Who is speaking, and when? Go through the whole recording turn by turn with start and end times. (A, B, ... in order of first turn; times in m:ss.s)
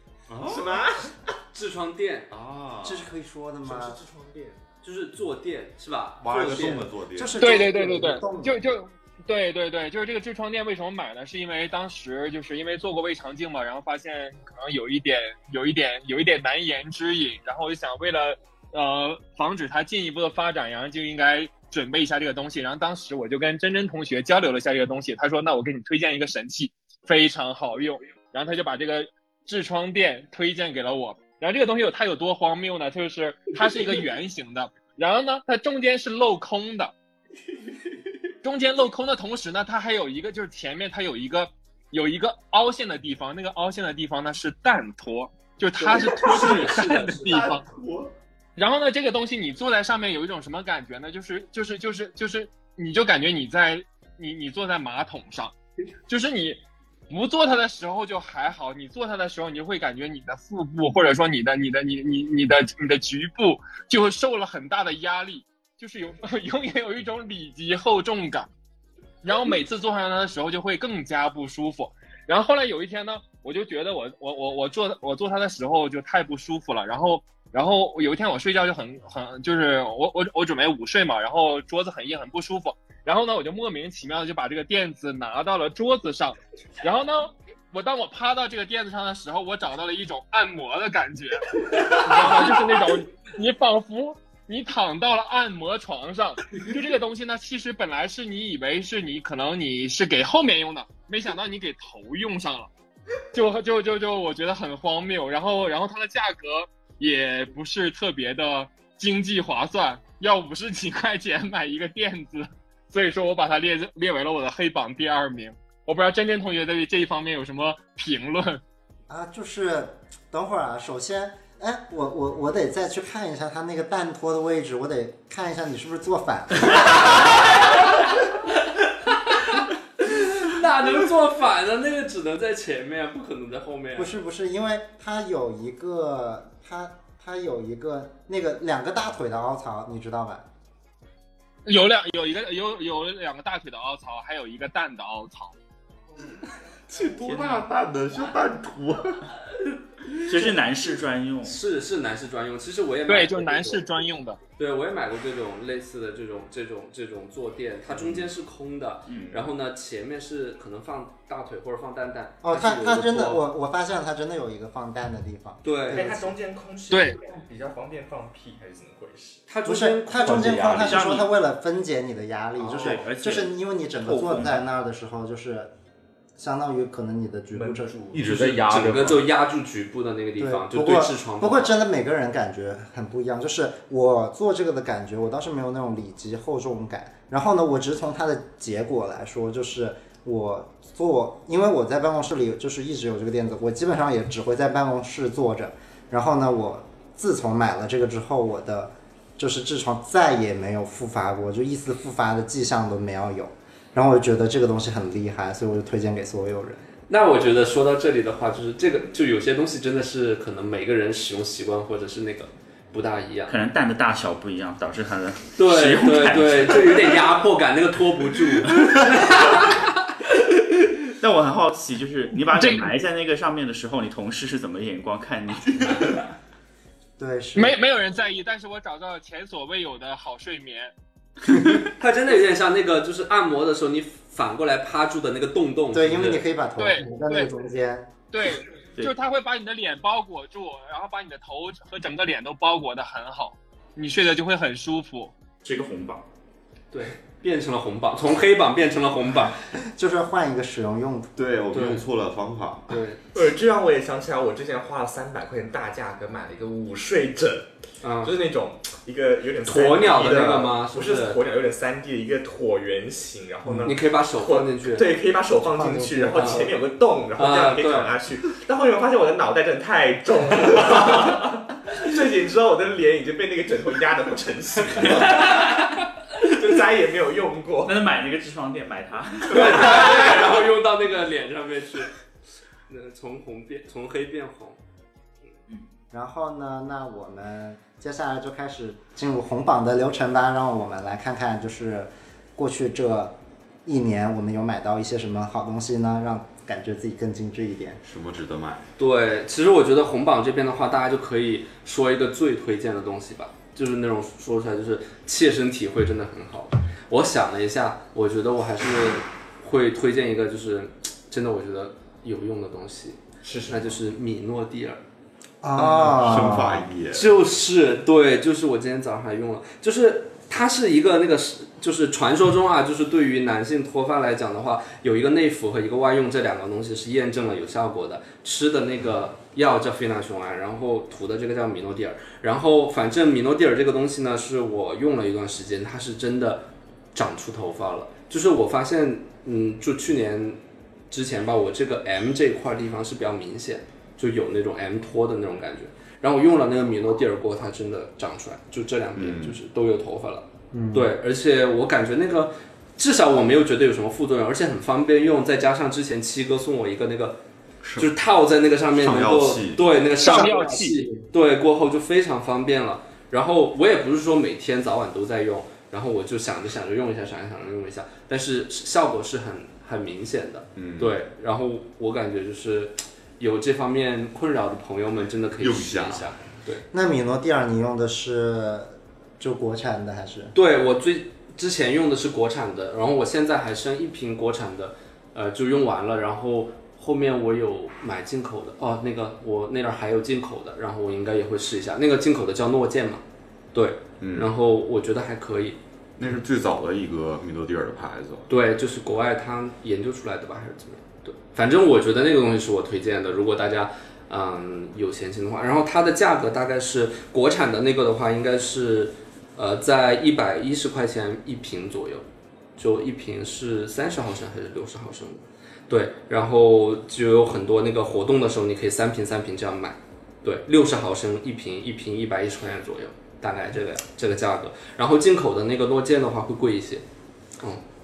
0:00.3-0:01.1 A
0:00.4-0:01.1 B
0:01.5-0:02.3 C
0:02.3-0:03.1 A
0:02.8-0:04.0 D
0:03.6-0:04.6 B
0:04.8-0:06.8 C
0:06.2-0:07.5 A
0:06.5-0:08.7 D
0:07.4-0:36.9 E
0:38.4-0:47.6 E
0:45.7-0:47.4 C
0:46.1-0:46.7 A
0:47.3-0:48.1 A
0:48.6-0:55.5 E
0:56.1-1:08.5 E
1:09.2-1:42.7 E
1:43.3-1:58.6 E
1:59.1-2:07.2 D
2:09.0-2:14.1 C
2:13.9-2:20.5 D
2:21.6-2:25.6 E
2:26.2-2:29.4 A
2:27.1-2:27.6 F
2:30.1-2:31.6 F
2:31.4-2:33.8 C
2:33.1-2:34.4 E
2:34.6-2:43.4 C
2:39.0-2:39.4 F
2:42.4-2:46.3 D
2:45.6-2:46.1 C
2:45.9-2:49.4 B
2:46.9-2:47.2 E
2:49.5-2:50.7 C
2:49.6-2:55.7 D
2:50.2-2:50.9 A
2:50.7-2:51.3 F
2:52.6-2:53.0 C
2:52.6-2:54.6 F
2:56.4-2:57.9 D
2:57.5-2:58.7 B
2:58.1-2:59.2 A
2:58.5-3:01.7 C
3:00.4-3:26.8 D
3:27.1-3:33.5 C
3:33.5-3:37.4 F
3:35.6-3:39.9 C
3:38.7-3:39.6 F
3:41.0-3:46.3 F
3:42.6-3:42.9 E
3:47.2-3:47.8 D
3:47.6-3:50.9 E
3:52.0-3:56.4 C
3:55.9-3:58.1 D
3:56.8-3:57.5 E
3:58.3-4:05.3 E
4:05.6-4:06.2 F
4:06.9-4:09.6 C
4:09.8-4:11.3 D
4:11.4-4:13.0 A
4:11.7-4:12.0 C
4:12.9-4:13.2 C
4:13.3-4:17.7 B
4:18.0-4:18.3 C
4:18.2-4:38.1 B
4:19.6-4:21.4 C
4:23.6-4:23.9 D
4:23.8-4:25.1 C
4:25.7-4:26.7 D
4:26.3-4:26.7 C
4:27.4-4:28.1 C
4:35.2-4:35.8 C
4:37.8-4:40.4 F
4:39.5-4:42.1 C
4:42.9-4:44.8 C
4:46.1-4:58.0 D
4:58.0-4:58.8 A
4:59.0-5:15.0 C
5:13.4-5:14.0 B
5:15.6-5:16.9 D
5:15.7-5:17.3 A
5:17.1-5:57.4 C
5:49.1-5:49.6 A
5:50.7-5:51.1 D
5:57.8-5:58.1 A
5:58.0-6:16.8 C
5:58.9-6:00.0 A
6:00.2-6:01.1 E
6:10.8-6:11.2 A
6:15.6-6:16.3 A
6:16.9-6:20.5 D
6:20.5-6:33.2 C
6:33.7-6:35.8 C
6:34.2-6:34.5 A
6:36.2-6:38.5 A
6:38.5-6:52.2 C
6:52.8-7:07.0 C